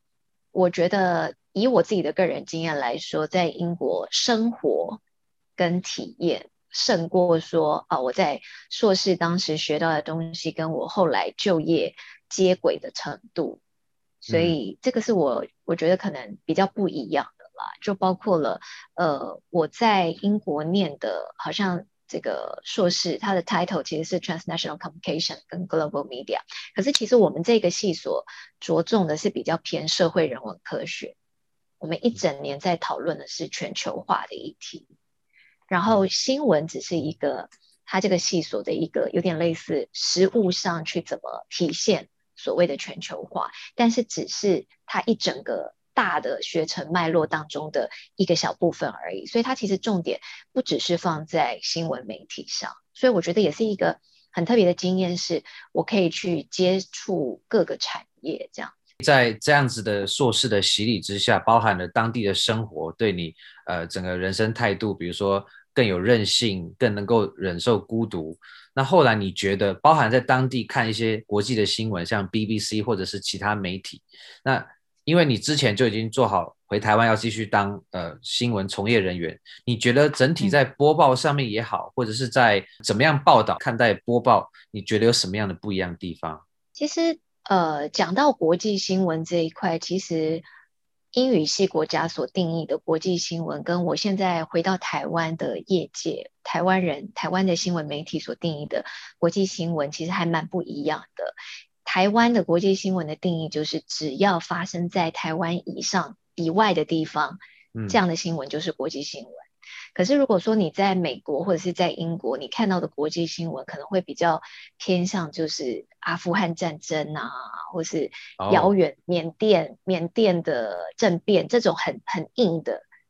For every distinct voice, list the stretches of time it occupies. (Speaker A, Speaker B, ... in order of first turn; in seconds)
Speaker A: 0.5-5.0, 5.6-13.6, 14.2-31.1, 31.8-34.9, 35.7-58.7, 86.8-90.5, 91.1-122.8
Speaker B: 14.3-14.6, 59.0-86.4, 118.4-118.7